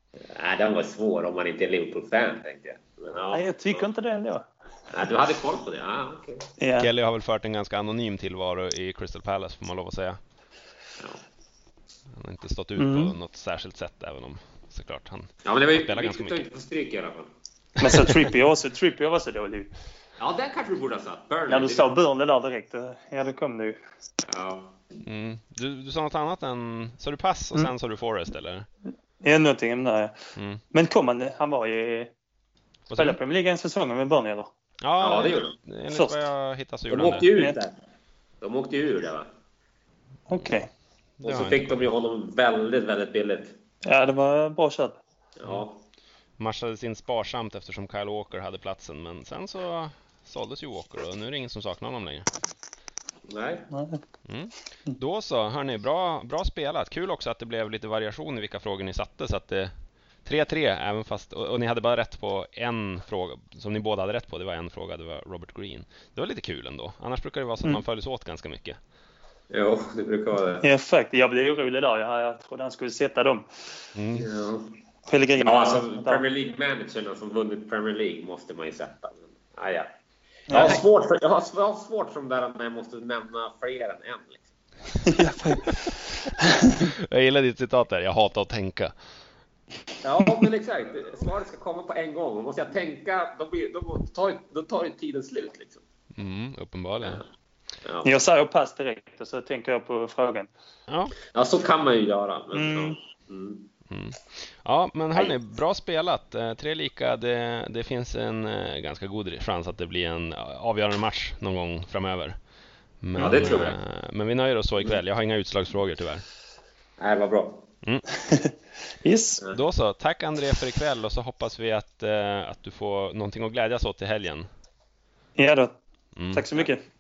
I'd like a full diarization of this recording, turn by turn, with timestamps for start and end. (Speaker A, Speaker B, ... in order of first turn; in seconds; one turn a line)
Speaker A: 0.3-3.9
Speaker B: 3.3-4.5
Speaker A: 4.9-6.5
Speaker B: 6.6-6.9
Speaker C: 6.8-10.2
Speaker C: 12.1-16.4
Speaker B: 12.8-13.1
Speaker A: 15.4-17.3
Speaker B: 17.8-19.7
Speaker A: 20.2-21.9
Speaker B: 21.5-23.8
Speaker A: 24.3-24.8
Speaker C: 25.0-28.7
Speaker B: 29.2-30.1
Speaker C: 30.4-30.6
Speaker B: 30.7-32.1
Speaker C: 32.9-33.2
Speaker B: 33.0-34.5
Speaker C: 34.8-37.3
Speaker A: 35.0-35.5
Speaker B: 35.9-36.2
Speaker A: 36.9-37.7
Speaker A: 38.4-39.3
Speaker B: 40.3-40.7
Speaker C: 41.2-41.9
Speaker A: 41.2-43.6
Speaker B: 43.9-45.0
Speaker A: 45.4-45.9
Speaker C: 46.4-52.3
Speaker A: 53.3-53.7
Speaker B: 53.7-54.0
Speaker C: 54.3-59.7
Speaker C: 60.2-68.8
Speaker A: 69.5-70.7
Speaker B: 70.6-73.5
Speaker C: 74.0-74.3
Speaker A: 74.2-74.7
Speaker B: 75.1-76.2
Speaker A: 75.4-79.9
Speaker B: 80.5-80.8
Speaker A: 80.5-84.5
Speaker B: 85.0-86.9
Speaker C: 86.8-88.9
Speaker A: 90.0-95.8
Speaker C: 96.2-97.2
Speaker A: 97.8-98.1
Speaker B: 98.0-100.5
Speaker C: 100.9-101.2
Speaker A: 101.3-103.7
Speaker B: 102.5-103.0
Speaker C: 103.9-112.4
Speaker C: 113.0-116.2
Speaker A: 113.2-113.8
Speaker A: 117.0-117.7
Speaker B: 118.2-119.4
Speaker C: 119.5-124.5
Speaker B: 125.4-125.8
Speaker C: 126.2-126.6
Speaker B: 126.3-126.8